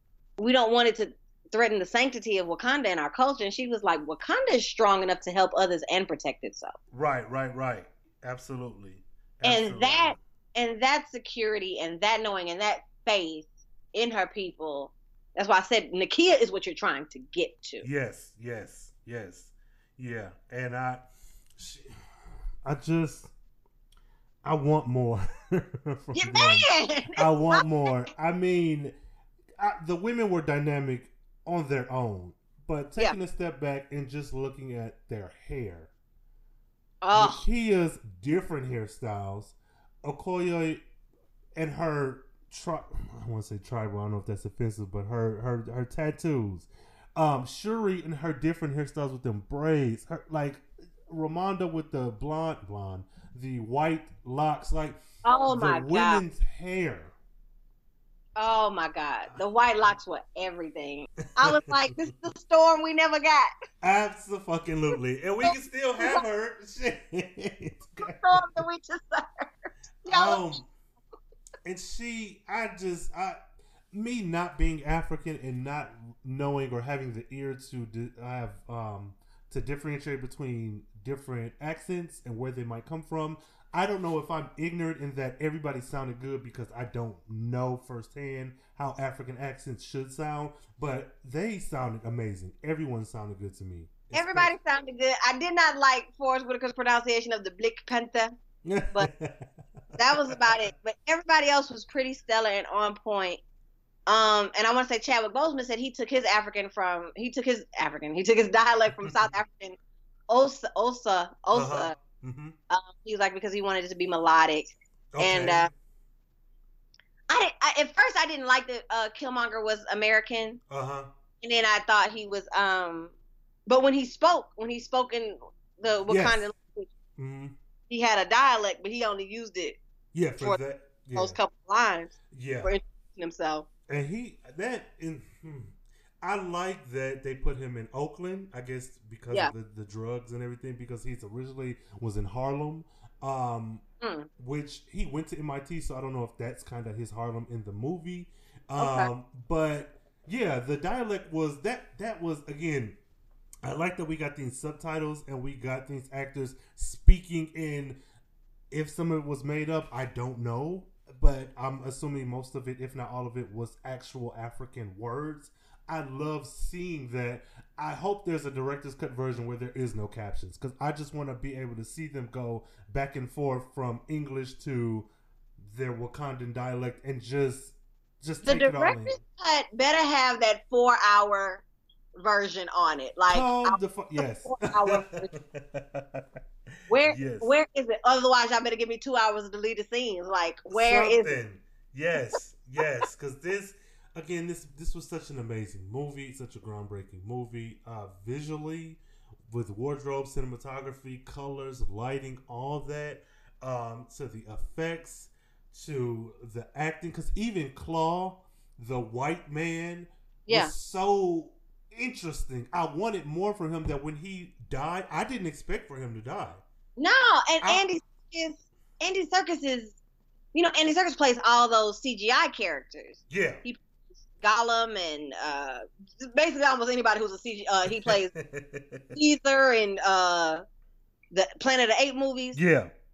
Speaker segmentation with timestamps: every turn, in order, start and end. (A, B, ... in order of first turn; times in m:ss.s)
0:00.4-0:06.8 A
0:06.9-0:10.2 B
0:09.4-0:17.9 A
0:17.8-0:21.1 B
0:21.6-0:21.9 B
0:22.6-0:23.3 B
0:24.4-0:29.0 B
0:26.2-0:27.9 A
0:29.6-0:35.9 B
0:37.0-0:37.4 A
0:37.1-0:40.8 B
0:41.6-0:57.1 B
0:55.2-0:56.2 A
0:58.4-1:03.5 A
1:01.4-1:01.7 B
1:03.8-1:08.6 B
1:06.0-1:06.2 A
1:08.0-1:10.5 A
1:10.1-1:10.7 B
1:11.6-1:13.4 B
1:13.9-1:34.5 B
1:34.1-1:38.4 A
1:38.6-1:40.3 B
1:40.0-1:43.4 A
1:44.1-1:49.8 A
1:49.0-1:49.3 B
1:50.3-1:51.9 A
1:51.5-1:52.6 B
1:52.7-1:55.7 A
1:55.1-1:55.7 B
1:57.3-2:00.6 A
2:00.7-2:01.1 B
2:01.4-2:03.1 A
2:03.7-2:06.9 A
2:06.1-2:06.4 B
2:07.2-2:07.6 B
2:07.9-2:09.8 A
2:10.1-2:11.4 B
2:11.2-2:13.7 A
2:12.3-2:12.7 B
2:13.9-2:23.8 B
2:24.0-2:24.3 A
2:24.4-2:33.0 B
2:28.8-2:29.1 A
2:33.6-2:38.0 B
2:38.7-2:55.1 B
2:55.6-2:59.2 B
2:58.4-3:01.6 A
3:02.2-3:03.8 A
3:03.3-3:06.2 B
3:04.4-3:05.3 A
3:06.9-3:11.4 A
3:07.0-3:07.5 B
3:10.7-3:36.6 B
3:30.5-3:30.7 A
3:37.0-3:40.0 A
3:40.5-3:43.8 A
3:43.3-3:43.6 B
3:44.4-3:48.3 A
3:48.0-3:49.2 B
3:49.1-3:50.6 A
3:51.3-3:52.6 A
3:52.5-3:52.9 B